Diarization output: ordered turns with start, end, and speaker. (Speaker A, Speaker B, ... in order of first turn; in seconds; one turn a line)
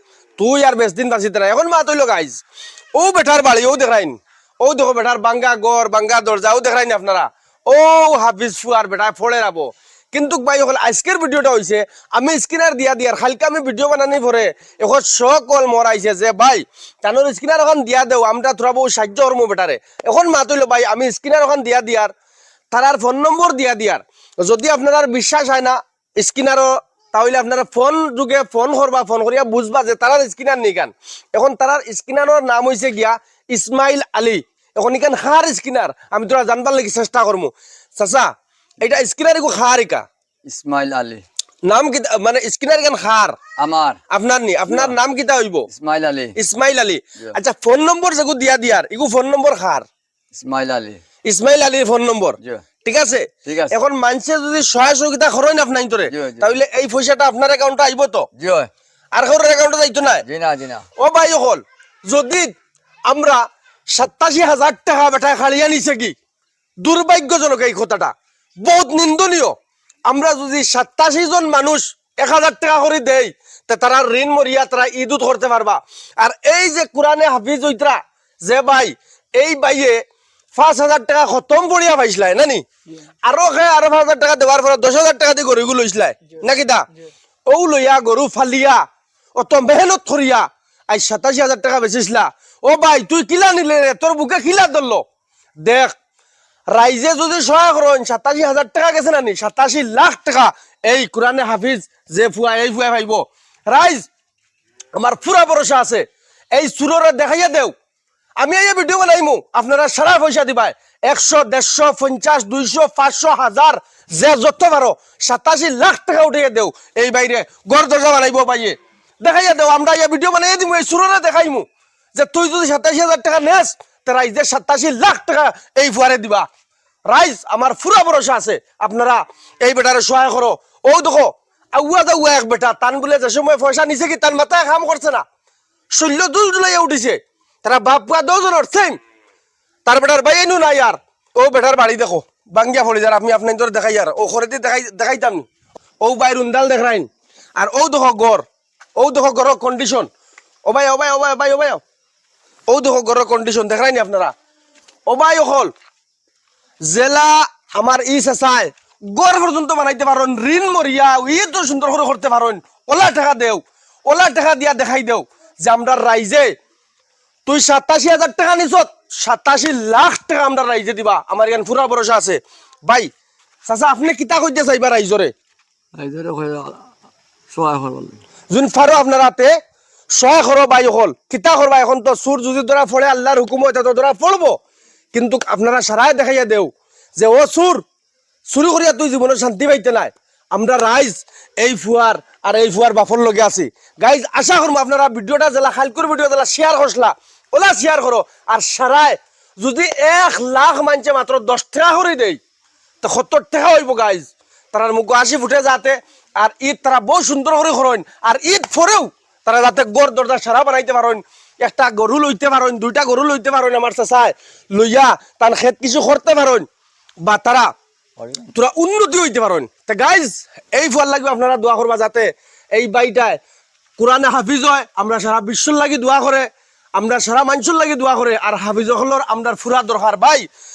Speaker A: 0.4-2.4
Speaker A: 3.0-22.1
Speaker A: 22.7-38.3
Speaker A: 38.8-40.0
Speaker B: 40.5-41.2
Speaker A: 41.6-43.4
Speaker B: 43.6-44.0
Speaker A: 44.1-45.7
Speaker B: 44.7-44.9
Speaker B: 45.7-46.4
Speaker A: 46.4-49.9
Speaker B: 50.3-51.0
Speaker A: 51.2-58.3
Speaker B: 53.5-53.8
Speaker B: 56.1-56.5
Speaker B: 58.4-58.7
Speaker A: 59.1-60.2
Speaker B: 60.2-60.9
Speaker A: 61.0-62.5
Speaker A: 63.1-63.4
Speaker A: 63.9-66.2
Speaker A: 66.8-69.5
Speaker A: 70.1-80.0
Speaker A: 80.5-82.6
Speaker A: 83.2-86.9
Speaker A: 87.5-88.8
Speaker A: 89.4-95.0
Speaker A: 95.6-96.0
Speaker A: 96.7-104.1
Speaker A: 105.0-107.7
Speaker A: 108.4-126.5
Speaker A: 127.1-135.2
Speaker A: 135.9-139.0
Speaker A: 139.9-145.5
Speaker A: 146.0-148.4
Speaker A: 149.0-150.1
Speaker A: 150.7-151.8
Speaker A: 152.7-154.3
Speaker A: 155.1-155.7
Speaker A: 156.8-166.5
Speaker A: 167.5-173.1
Speaker A: 173.7-175.3
Speaker B: 176.0-176.8
Speaker B: 177.5-178.2
Speaker A: 178.5-179.5
Speaker A: 180.2-184.6
Speaker A: 185.1-187.8
Speaker A: 188.5-202.4
Speaker A: 203.0-216.7
Speaker A: 217.2-217.7
Speaker B: 218.2-218.5
Speaker A: 218.5-223.4
Speaker A: 224.0-230.5